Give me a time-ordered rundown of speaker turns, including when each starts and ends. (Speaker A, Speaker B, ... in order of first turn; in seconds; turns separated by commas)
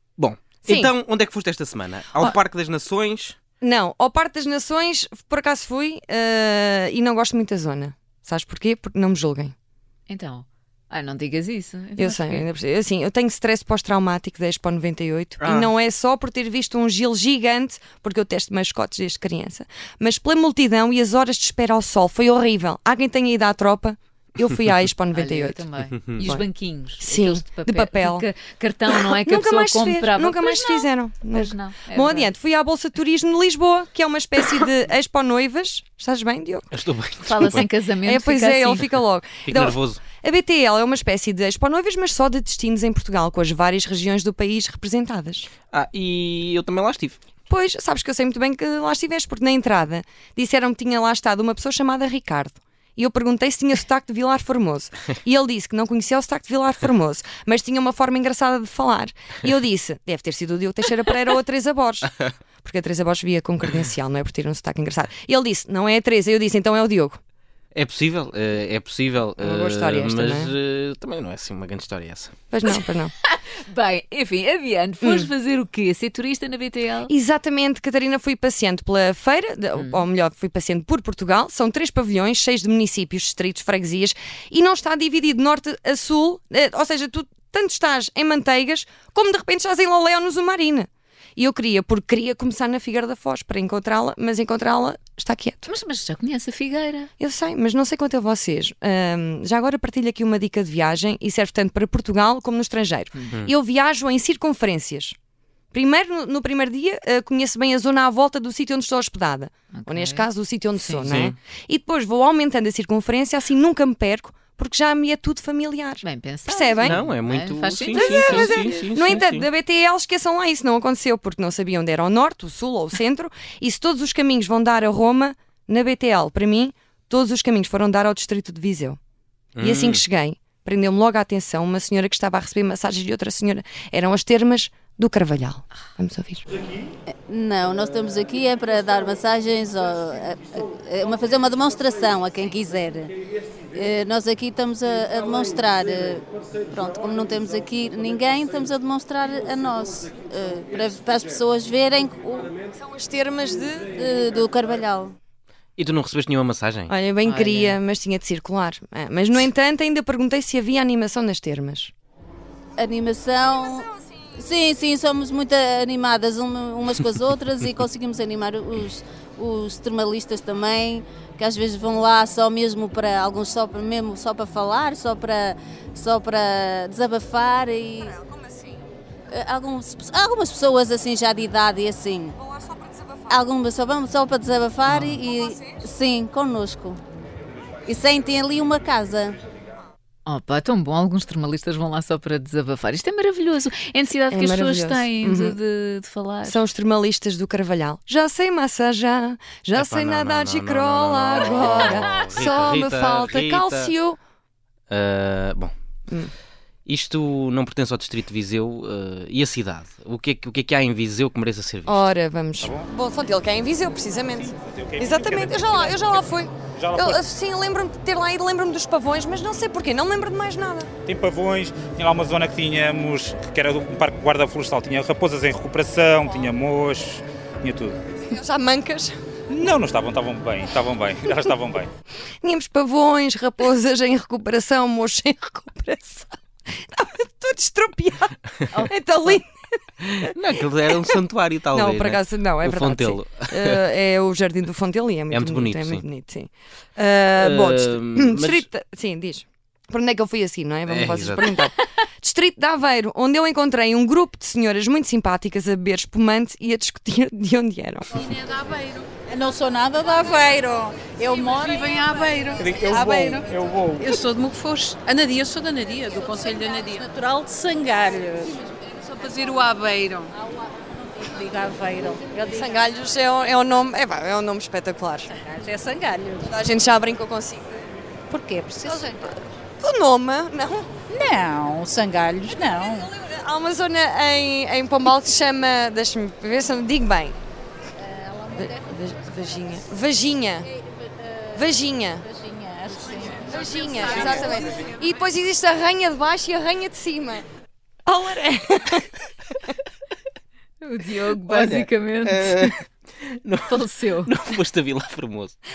Speaker A: 0.2-3.4, Speaker B: 0.7-0.9, Speaker B: 3.6-9.5, Speaker C: 10.1-12.5, Speaker B: 12.0-25.6, Speaker A: 15.4-15.7, Speaker C: 25.1-32.3, Speaker B: 26.2-26.5, Speaker B: 27.0-28.3, Speaker B: 29.1-36.7, Speaker A: 36.7-37.7, Speaker C: 37.2-38.9, Speaker B: 38.0-45.5, Speaker A: 39.4-40.0, Speaker A: 45.7-47.2, Speaker B: 47.5-67.2, Speaker A: 67.7-72.3, Speaker B: 69.4-70.5, Speaker B: 72.5-73.1, Speaker C: 73.4-77.1, Speaker B: 75.0-75.3, Speaker B: 77.1-95.7, Speaker C: 79.8-80.0, Speaker C: 95.7-97.1, Speaker B: 97.2-105.2, Speaker B: 105.7-117.0, Speaker C: 109.7-110.3, Speaker C: 110.8-111.2, Speaker A: 111.0-111.3, Speaker C: 116.0-118.8, Speaker A: 116.8-119.5, Speaker B: 117.9-129.0, Speaker A: 129.6-130.0, Speaker B: 129.6-136.4, Speaker D: 137.1-143.1, Speaker D: 143.7-152.5, Speaker B: 152.8-153.9, Speaker D: 153.9-155.2, Speaker A: 155.8-156.9, Speaker B: 156.9-161.9, Speaker C: 157.2-157.8, Speaker D: 162.8-178.2, Speaker D: 179.3-182.4, Speaker D: 183.3-187.0, Speaker C: 184.8-185.2, Speaker D: 187.8-189.4, Speaker C: 190.2-196.6, Speaker B: 194.3-195.6, Speaker B: 196.4-204.2, Speaker A: 199.8-203.9, Speaker A: 204.9-205.7, Speaker A: 206.8-212.0, Speaker B: 211.8-220.9, Speaker E: 212.6-212.9, Speaker E: 214.4-216.2, Speaker E: 216.7-217.2, Speaker E: 221.1-227.9, Speaker B: 228.2-229.1, Speaker E: 229.5-231.9, Speaker B: 232.4-236.3, Speaker B: 236.9-238.4, Speaker C: 238.7-239.3, Speaker B: 238.9-239.5, Speaker A: 240.0-243.8, Speaker B: 240.9-241.2, Speaker B: 241.7-258.1, Speaker A: 245.3-246.0, Speaker A: 247.3-248.7, Speaker A: 250.9-251.6, Speaker F: 258.1-270.3, Speaker E: 262.6-264.1, Speaker F: 271.1-272.7, Speaker B: 272.5-275.3, Speaker F: 275.4-276.5, Speaker B: 276.4-277.8, Speaker F: 278.3-279.1, Speaker B: 278.8-280.9, Speaker F: 281.1-283.1, Speaker B: 283.1-287.4, Speaker F: 288.3-288.7, Speaker B: 288.5-290.7, Speaker B: 291.5-292.3, Speaker F: 292.3-294.4, Speaker B: 293.4-297.4, Speaker B: 298.1-299.1, Speaker C: 300.8-302.7, Speaker A: 301.5-305.5, Speaker C: 303.7-304.3